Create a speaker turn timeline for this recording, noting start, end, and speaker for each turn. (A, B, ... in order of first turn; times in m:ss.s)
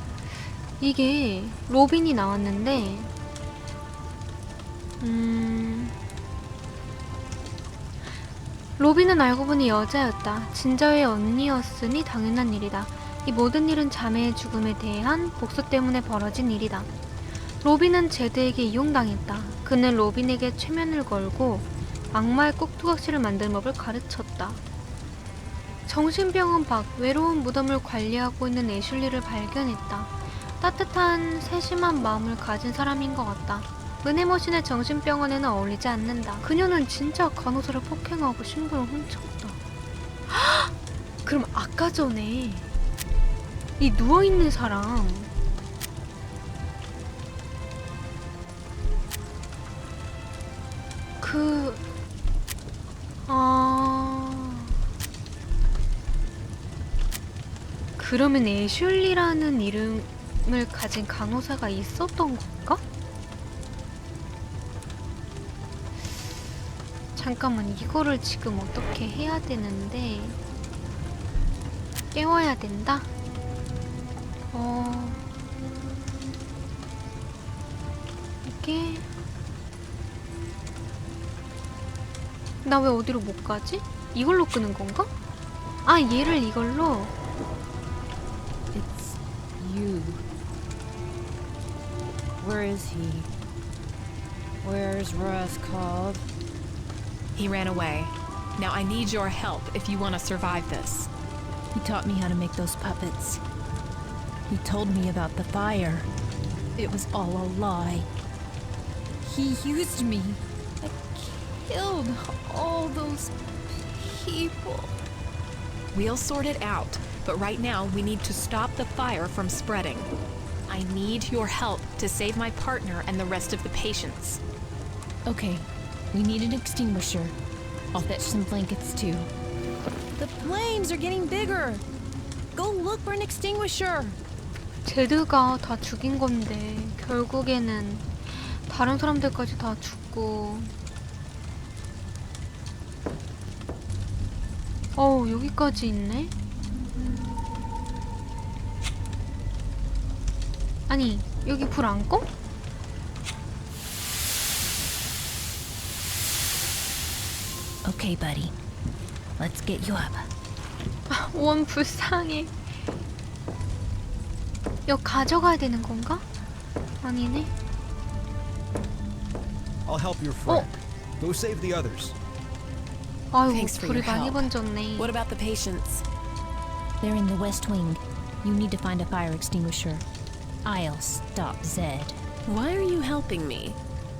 0:00.8-0:03.1 A
0:05.0-0:06.0 A
0:08.8-0:16.9 A
0:17.6-0:24.6 A
0:25.9-0:39.6 A
0:40.3-0:40.7 A
0:41.2-0:42.7 A
0:43.8-0:45.3 A
0:51.2-0:51.9 A
0:53.3-0:54.7 A
0:58.0-1:02.8 A
1:07.2-1:10.4 A
1:12.1-1:13.1 A
1:14.5-1:15.2 A
1:18.4-1:19.1 A
1:22.6-1:25.1 A
1:25.9-1:27.1 A
1:28.7-1:30.2 B
1:32.4-1:33.3 B
1:34.6-1:36.2 B
1:37.4-1:41.1 C
1:41.7-1:43.4 B
1:44.5-1:46.1 B
1:46.8-1:48.1 B
1:49.2-1:54.9 B
1:55.9-2:00.1 C
2:00.7-2:04.4 C
2:05.3-2:07.4 B
2:07.9-2:09.3 B
2:10.2-2:11.8 B
2:12.5-2:14.2 B
2:14.8-2:20.7 A
2:25.0-2:26.3 A
2:30.9-2:32.3 A
2:37.9-2:38.5 B
2:39.4-2:40.3 B
2:41.1-2:42.5 A
2:44.9-2:46.2 A
2:47.0-2:47.5 A
2:49.9-2:52.2 D
2:53.3-2:55.1 A
2:53.5-2:56.0 C
2:57.0-3:00.0 B
3:00.6-3:02.2 B
3:02.5-3:03.8 C